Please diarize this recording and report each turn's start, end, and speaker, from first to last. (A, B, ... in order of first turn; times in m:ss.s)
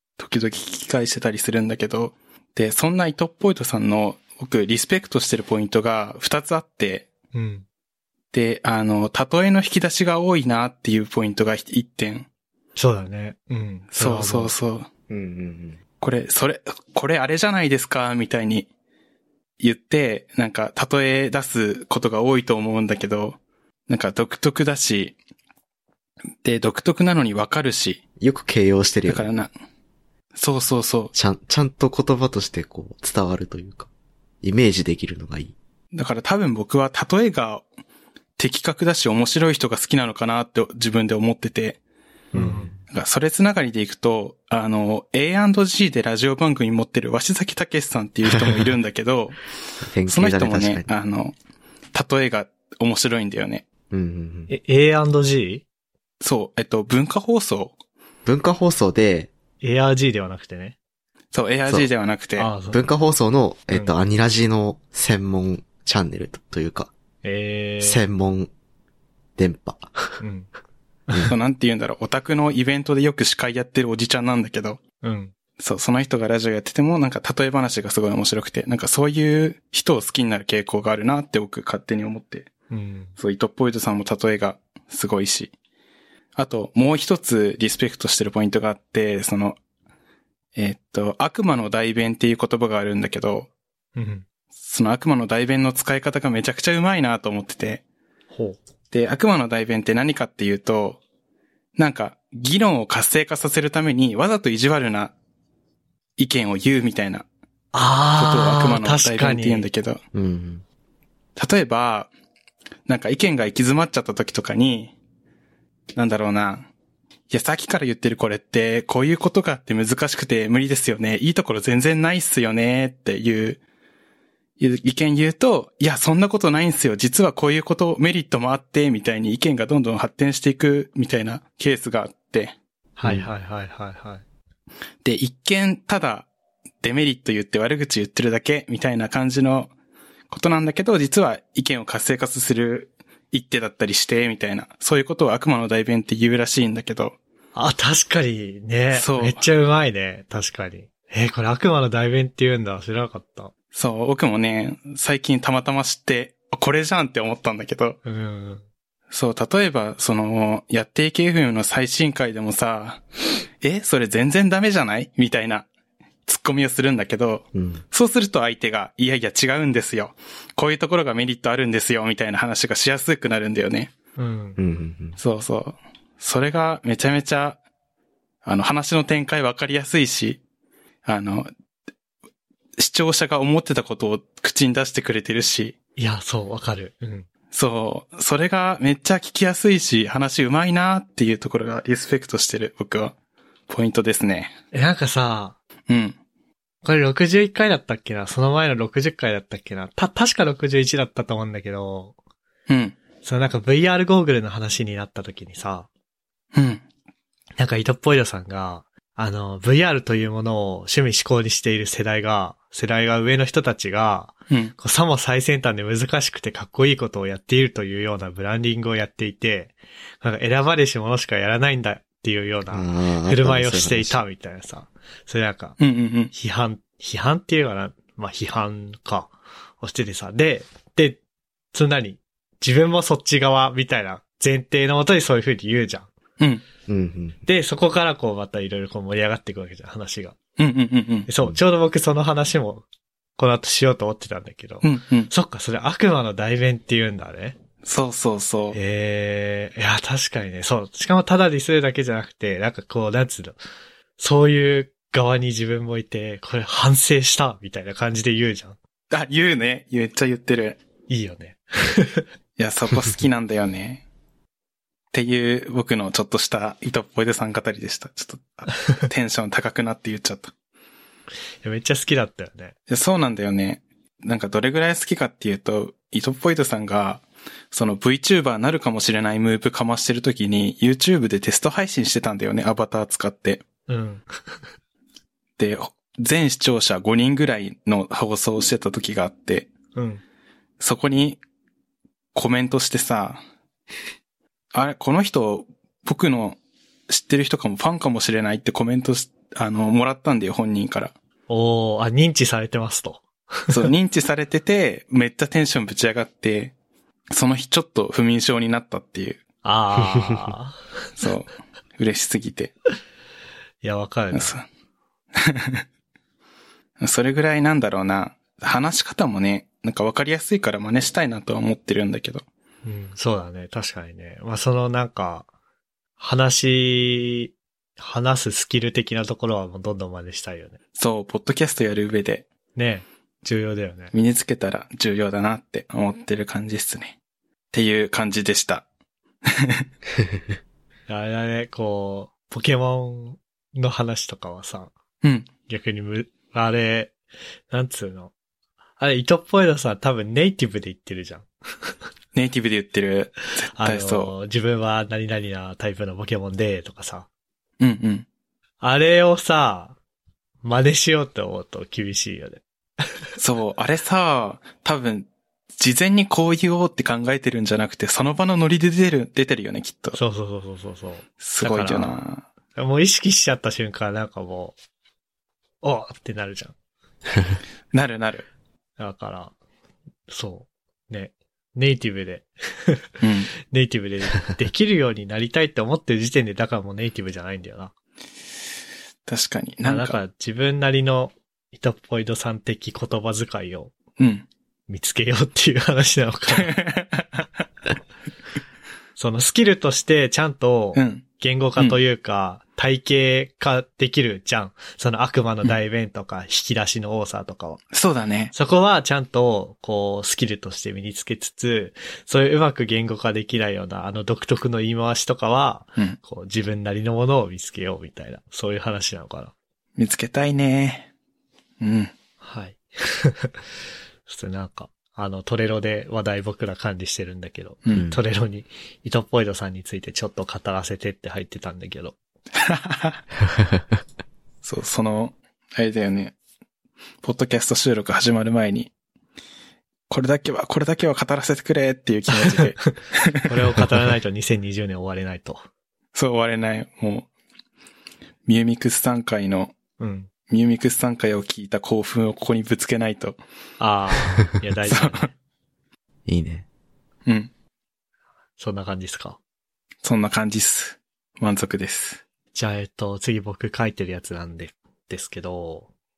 0:00.2-0:07.1 A
0:07.3-0:07.6 B
0:08.3-0:12.3 A
0:12.8-0:14.5 B
0:13.9-0:14.9 A
0:15.1-0:15.8 C
0:16.0-0:18.7 A
0:19.6-0:25.2 A
0:26.4-0:28.0 A
0:28.2-0:29.3 C
0:29.1-0:29.5 A
0:30.4-0:31.1 A
0:31.1-0:33.9 C
0:34.4-0:35.6 C
0:35.9-0:37.6 A
0:38.4-0:41.8 A
0:42.3-0:42.7 B
0:42.3-0:42.8 C
0:42.9-0:49.4 A
0:49.8-0:50.9 C
0:50.1-0:51.4 A
0:51.9-0:53.6 A
0:53.9-0:54.5 C
0:54.5-0:55.6 B
0:56.2-0:57.8 A
0:58.2-0:59.3 C
0:59.6-1:00.8 B
1:01.3-1:02.5 A
1:02.4-1:02.8 B
1:02.7-1:06.9 C
1:07.2-1:08.0 B
1:07.8-1:08.5 C
1:09.4-1:10.2 C
1:10.2-1:10.5 B
1:11.3-1:14.8 A
1:15.0-1:15.3 B
1:15.6-1:22.5 A
1:22.7-1:23.1 B
1:23.2-1:25.5 A
1:26.4-1:29.6 A
1:30.6-1:33.5 A
1:34.0-1:34.2 B
1:34.6-1:37.8 A
1:38.3-1:38.6 B
1:38.9-1:41.0 A
1:41.8-1:45.1 A
1:46.2-1:47.3 A
1:47.7-1:49.7 B
1:48.2-1:50.0 A
1:50.1-1:50.6 C
1:51.4-1:52.1 A
1:52.9-1:54.9 A
1:55.9-1:56.7 A
1:57.3-2:03.6 A
2:04.6-2:12.6 A
2:13.0-2:14.2 B
2:13.0-2:13.3 C
2:15.0-2:16.3 A
2:16.8-2:19.7 A
2:20.3-2:27.2 A
2:27.6-2:33.5 B
2:28.9-2:29.4 A
2:33.7-2:38.0 A
2:38.0-2:38.6 B
2:39.1-2:43.0 A
2:43.6-2:45.7 A
2:46.3-2:53.9 A
2:47.5-2:47.8 C
2:54.2-2:54.6 B
2:54.6-2:55.2 C
2:55.2-2:57.6 A
2:58.4-3:00.4 A
3:01.0-3:01.5 A
3:02.8-3:05.8 A
3:06.0-3:07.3 B
3:07.5-3:13.1 A
3:13.7-3:14.6 A
3:14.7-3:15.6 B
3:15.9-3:16.2 A
3:16.8-3:22.2 B
3:22.7-3:23.0 A
3:23.2-3:25.9 B
3:26.5-3:26.8 A
3:27.6-3:45.8 B
3:42.7-3:44.2 C
3:45.8-3:46.3 A
3:46.3-3:51.2 B
3:51.7-3:56.1 B
3:56.4-3:56.6 A
3:56.9-3:57.4 C
3:57.5-4:00.4 B
4:00.6-4:01.3 A
4:01.3-4:02.8 B
4:03.4-4:07.6 B
4:04.8-4:05.3 A
4:07.8-4:08.8 A
4:08.7-4:13.6 B
4:14.2-4:18.8 B
4:19.1-4:20.8 A
4:21.1-4:22.3 B
4:22.6-4:24.0 A
4:25.1-4:30.5 A
4:31.6-4:32.7 B
4:32.9-4:43.6 A
4:43.9-4:44.6 B
4:45.6-4:49.7 A
4:50.0-4:50.2 B
4:50.8-4:51.4 A
4:52.3-4:53.4 A
4:54.7-4:56.6 A
4:57.1-5:01.2 A
5:01.5-5:03.8 B
5:03.7-5:06.7 A
5:07.3-5:09.4 A
5:09.6-5:10.8 B
5:11.2-5:12.7 A
5:13.8-5:14.6 B
5:14.3-5:14.6 A
5:15.4-5:15.8 A
5:17.0-5:22.4 A
5:22.8-5:25.5 B
5:26.2-5:30.8 B
5:31.0-5:32.5 A
5:32.8-5:34.1 B
5:34.1-5:37.2 A
5:37.7-5:38.8 A
5:39.5-5:39.8 A
5:41.1-5:44.9 B
5:45.2-5:45.5 A
5:45.7-5:47.2 B
5:47.7-5:48.3 B
5:49.0-5:51.9 B
5:52.3-5:54.3 A
5:53.8-5:57.3 B
5:57.8-5:58.3 A
5:58.8-6:00.0 B
6:00.6-6:02.6 B
6:03.4-6:10.2 A
6:10.1-6:12.2 B
6:11.4-6:12.4 A
6:12.8-6:14.8 B
6:15.8-6:16.7 B
6:17.9-6:18.5 A
6:19.0-6:19.5 B
6:20.3-6:23.1 B
6:23.2-6:23.5 A
6:23.7-6:27.9 B
6:29.3-6:30.2 A
6:29.8-6:34.0 B
6:34.2-6:34.5 A
6:34.9-6:36.8 B
6:36.5-6:37.5 A
6:39.2-6:47.8 B
6:41.0-6:41.2 A
6:47.9-6:48.5 A
6:48.5-6:59.5 B
7:00.0-7:01.1 A
7:01.8-7:02.1 A
7:02.4-7:03.6 B
7:04.3-7:12.2 B
7:07.9-7:08.2 C
7:12.6-7:13.2 A
7:14.6-7:16.3 A
7:17.2-7:18.9 A
7:20.1-7:23.2 A
7:22.8-7:25.6 B
7:26.2-7:27.3 A
7:28.5-7:29.8 A
7:30.0-7:30.3 B
7:30.5-7:33.4 A
7:33.8-7:35.3 B
7:34.9-7:35.3 A
7:36.3-7:36.7 C
7:38.6-7:39.4 B
7:40.0-7:42.2 A
7:42.5-7:45.9 B